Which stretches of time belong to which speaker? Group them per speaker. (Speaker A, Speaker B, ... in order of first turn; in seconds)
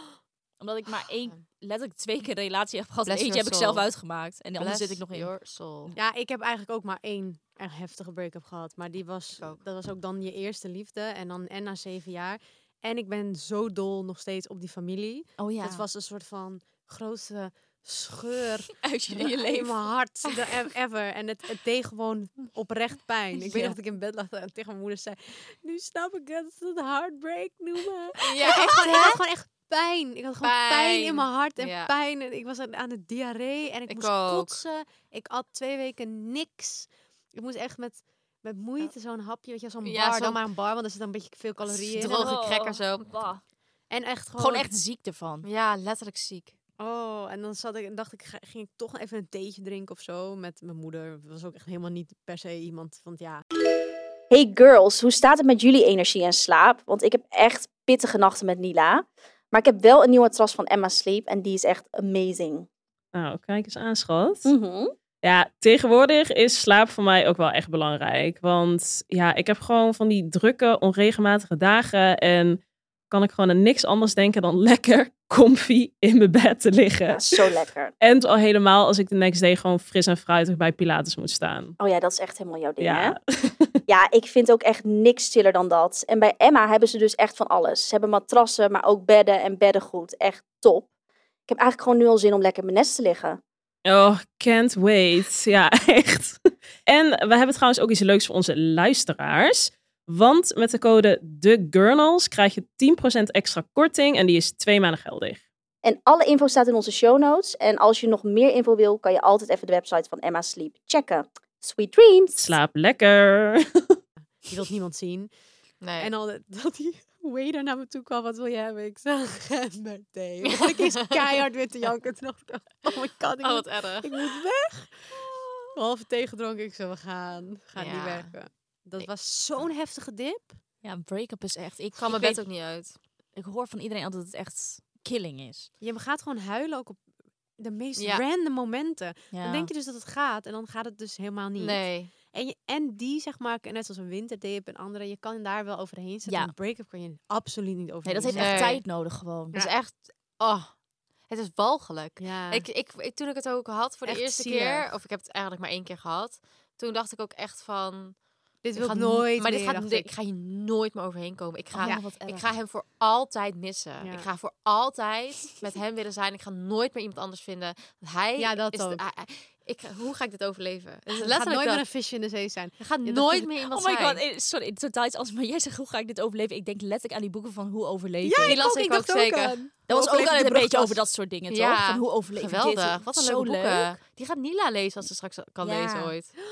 Speaker A: 0.6-5.3, 15.4-15.8, 18.8-19.9, 23.4-23.8, 28.4-29.2, 42.0-43.4, 44.4-45.5, 130.8-132.4, 133.3-135.7, 139.3-139.7, 146.2-146.5, 148.0-149.5, 161.7-162.5, 173.7-178.6, 179.9-184.0, 185.6-186.1
Speaker B: 3.1-3.8, 4.6-5.9, 28.3-29.1, 30.4-31.9, 33.9-34.6, 39.8-40.4, 41.7-43.1, 45.4-46.5, 115.8-116.1, 120.5-120.7, 123.4-124.1, 127.8-128.3, 132.0-132.9, 138.0-138.2, 141.6-142.1, 148.3-148.8, 149.5-150.7, 151.3-158.2, 158.8-171.8, 172.8-174.2, 178.4-179.6, 181.5-186.2
Speaker C: 6.0-42.3, 43.9-44.7, 46.8-53.4, 114.4-115.3, 116.0-125.2, 125.7-130.6, 135.8-137.0, 137.6-148.8, 152.2-152.6, 154.0-154.9, 158.6-160.1, 164.0-164.3, 168.4-169.0, 171.2-173.3, 178.2-181.0
Speaker D: 54.3-62.7, 64.4-64.9, 77.1-77.9, 81.8-83.2, 83.9-90.9, 91.5-93.4, 105.8-112.5
Speaker E: 63.1-64.5, 65.2-72.6, 73.1-81.8, 82.8-83.7, 93.8-105.4, 112.3-113.7